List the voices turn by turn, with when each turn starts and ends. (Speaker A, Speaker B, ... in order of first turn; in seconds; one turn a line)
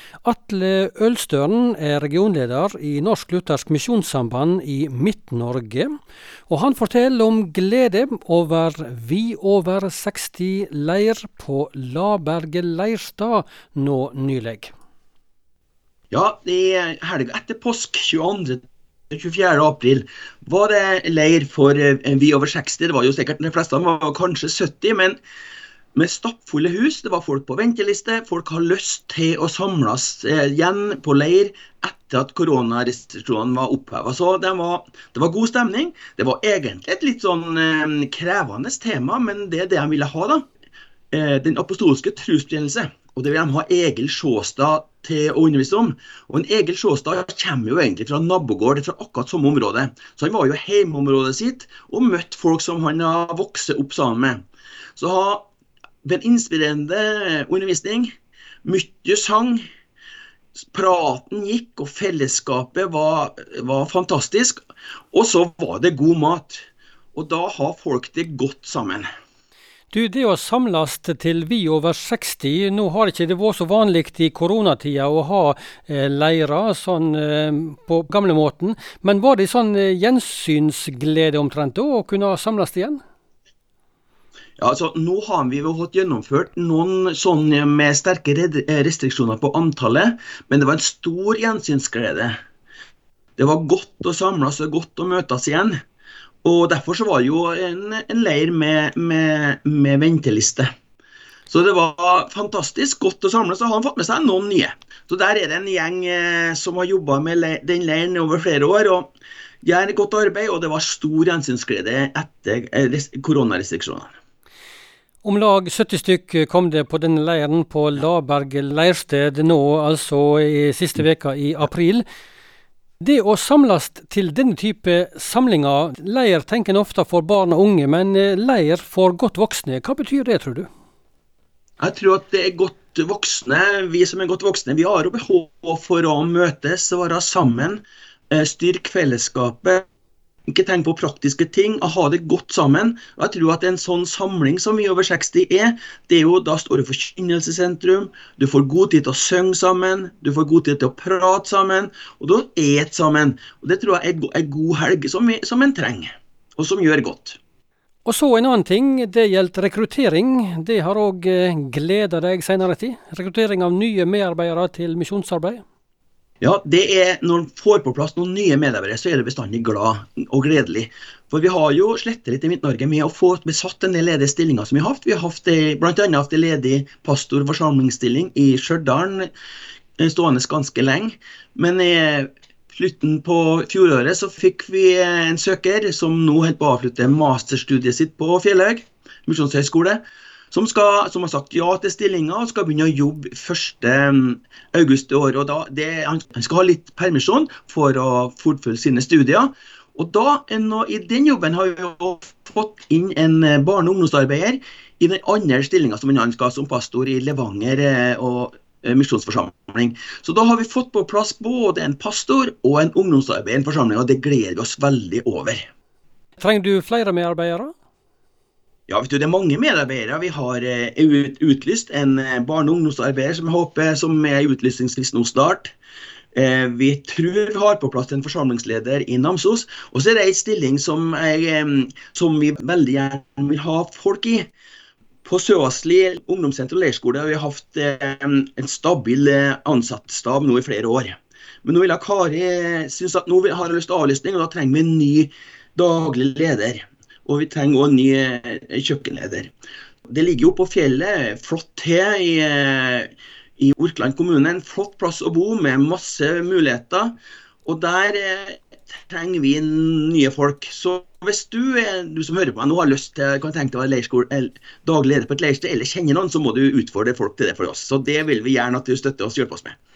Speaker A: 0.2-5.9
Speaker A: 6.5-14.7
Speaker B: 16.1-25.2
Speaker B: 25.9-40.4
Speaker B: 41.1-54.4
Speaker B: 55.0-55.5
Speaker B: 56.0-58.1
Speaker B: 58.6-59.6
Speaker B: 60.6-64.6
Speaker B: 65.1-69.1
Speaker A: 69.9-83.0
Speaker B: 84.6-92.3
Speaker B: 93.4-95.8
Speaker B: 96.4-100.7
Speaker B: 101.5-114.1
Speaker A: 115.2-122.0
Speaker A: 123.0-130.7
Speaker B: 131.8-139.8
Speaker B: 140.5-157.4
Speaker A: 158.1-165.6
Speaker B: 166.4-179.3
Speaker B: 180.0-215.7
Speaker A: 216.4-217.7
Speaker B: 218.9-225.7
Speaker B: 226.3-234.5
Speaker B: 235.2-249.5
Speaker B: 250.1-269.8